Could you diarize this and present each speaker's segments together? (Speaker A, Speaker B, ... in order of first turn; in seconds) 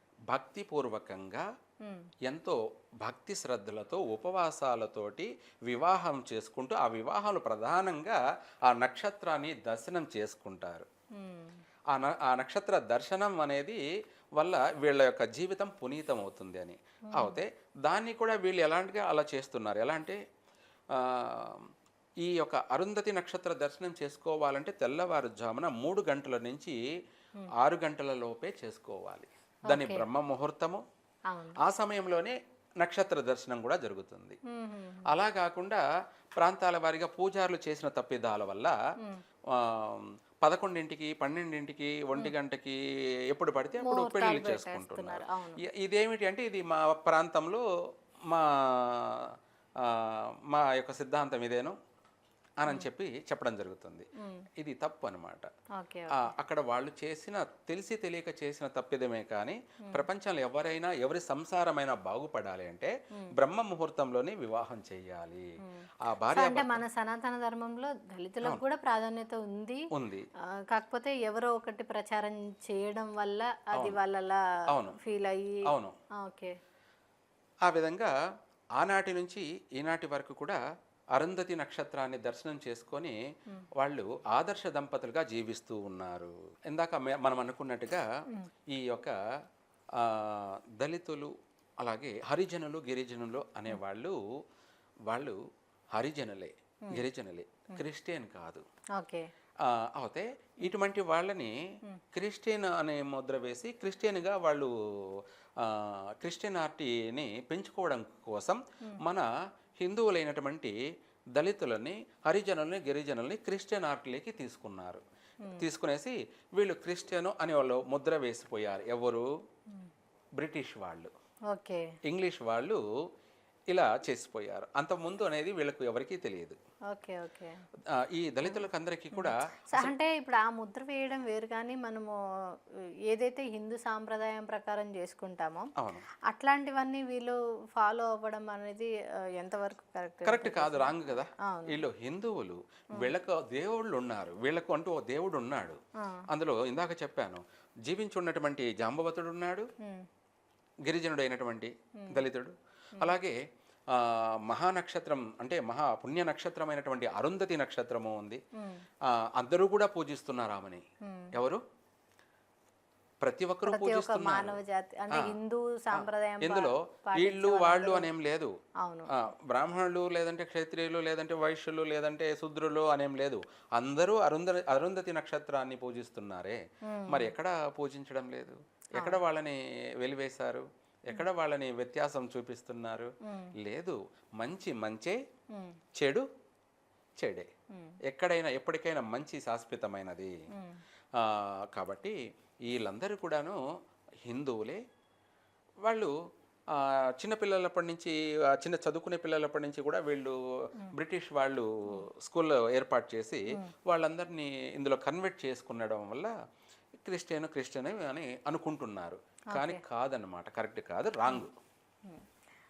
Speaker A: 0.3-1.5, 2.3-10.9, 11.9-13.8, 14.4-20.2, 20.9-21.7, 22.2-26.8, 27.6-30.8, 31.6-34.4, 35.1-35.8, 36.4-38.8, 39.5-42.8, 43.3-47.6, 48.3-51.8, 52.6-55.5, 56.1-65.5, 66.0-66.8, 69.9-70.3, 73.8-74.0, 74.7-75.0, 75.7-76.0, 77.7-78.1, 78.8-80.6, 81.2-83.2, 83.8-88.1, 88.7-89.1, 90.0-94.2, 95.1-95.4, 95.9-98.6, 99.6-101.5, 102.1-109.3, 109.8-110.8, 111.3-115.0, 115.6-119.3, 120.4-121.1, 122.1-122.8, 123.7-126.6, 127.9-129.9, 135.8-136.1, 140.2-145.8, 146.3-149.7, 150.9-153.4, 153.9-158.4, 159.1-160.8, 161.3-161.6, 163.2-164.6, 165.9-168.5, 169.1-185.2, 186.0-186.3, 187.2-187.5, 188.1-190.3, 191.2-193.6, 194.3-194.8, 195.8-196.1, 196.7-200.4, 200.9-206.3, 207.0-211.5
Speaker B: 1.8-2.1, 11.2-11.6, 29.7-30.1, 31.3-31.6, 34.5-35.1, 43.8-45.6, 54.2-54.5, 55.8-56.3, 65.6-69.8, 70.7-75.6, 76.2-76.5, 99.0-99.3, 121.5-121.9, 126.9-127.6, 128.4-132.2, 133.1-135.7, 136.3-141.0, 141.5-141.8, 161.1-161.3, 163.7-168.1, 168.8-169.1, 176.9-177.3, 183.3-183.5, 190.5-190.8, 209.5-209.8